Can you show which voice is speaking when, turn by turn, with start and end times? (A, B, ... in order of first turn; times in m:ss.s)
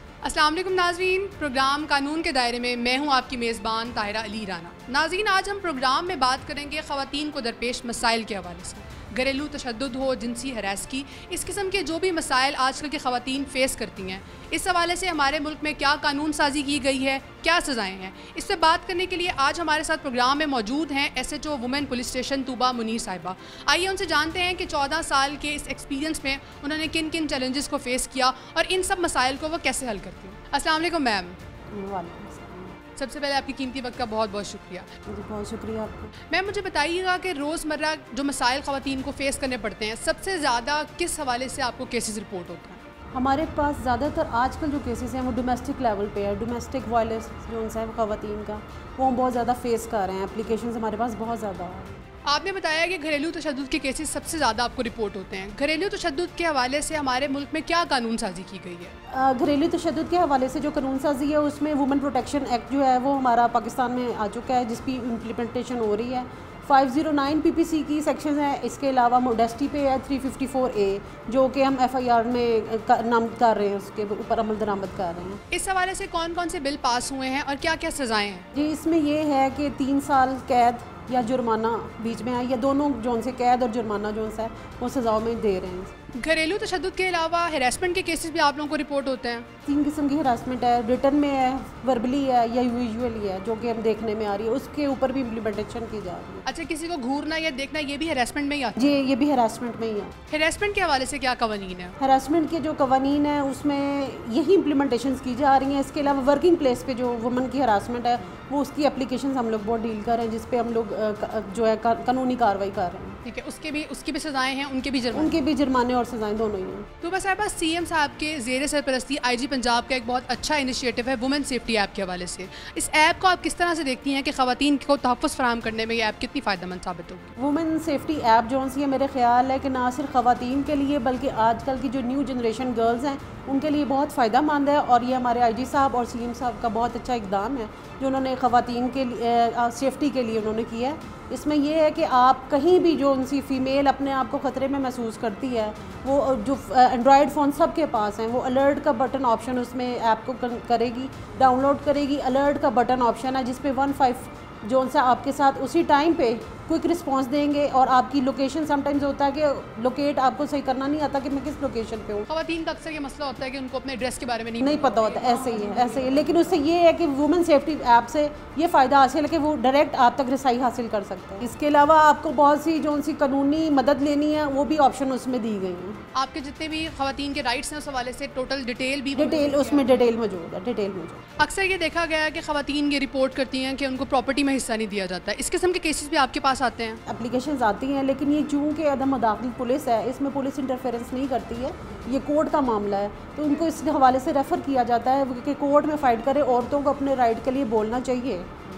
0:00.2-0:31.4 A
0:31.7-0:32.8 B
0:33.0-0:34.9 A
0:35.1-0:36.1 B
0:36.3-0:42.8 A
0:43.2-0:52.0 B
0:52.3-0:58.9 A
0:59.1-1:15.4 B
1:15.5-1:18.5 A
1:18.5-1:25.9 B
1:26.1-1:29.5 A
1:29.7-1:36.5 B
1:36.5-1:39.0 A
1:38.8-1:40.1 B
1:40.3-1:42.0 A
1:42.0-1:53.2 B
1:53.2-1:55.4 A
1:55.1-1:56.9 B
1:57.0-2:07.3 A
2:07.4-2:42.3 B
2:42.3-2:45.3 A
2:44.6-2:56.0 B
2:56.2-3:00.0 A
2:59.2-3:01.2 B
3:01.4-3:07.0 A
3:07.1-3:18.5 B